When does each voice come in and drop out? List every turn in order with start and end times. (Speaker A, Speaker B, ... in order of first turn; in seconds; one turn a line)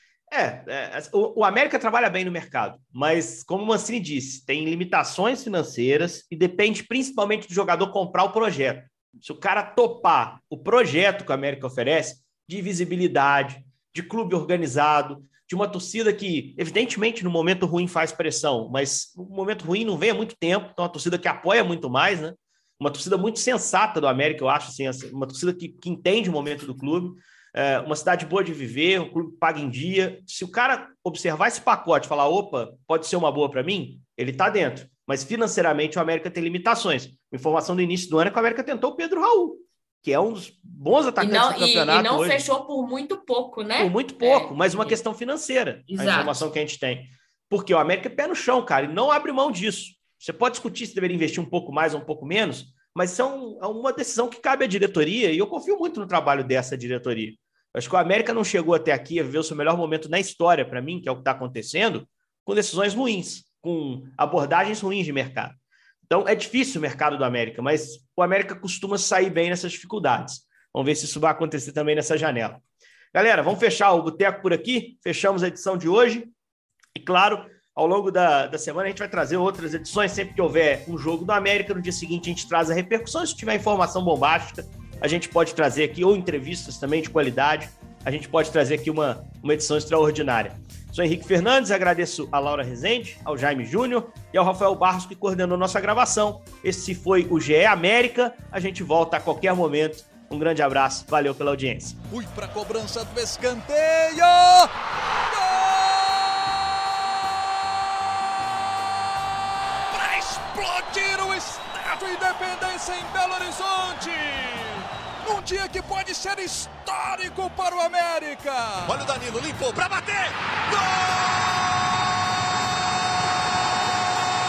Speaker A: 0.3-42.4
Speaker B: 41.2-45.0
Speaker A: 43.8-72.6
Speaker B: 45.9-46.5
Speaker A: 73.1-76.3
Speaker A: 77.0-102.0
Speaker C: 102.1-104.7
Speaker C: 105.3-106.6
Speaker C: 109.9-119.0
Speaker D: 118.8-121.6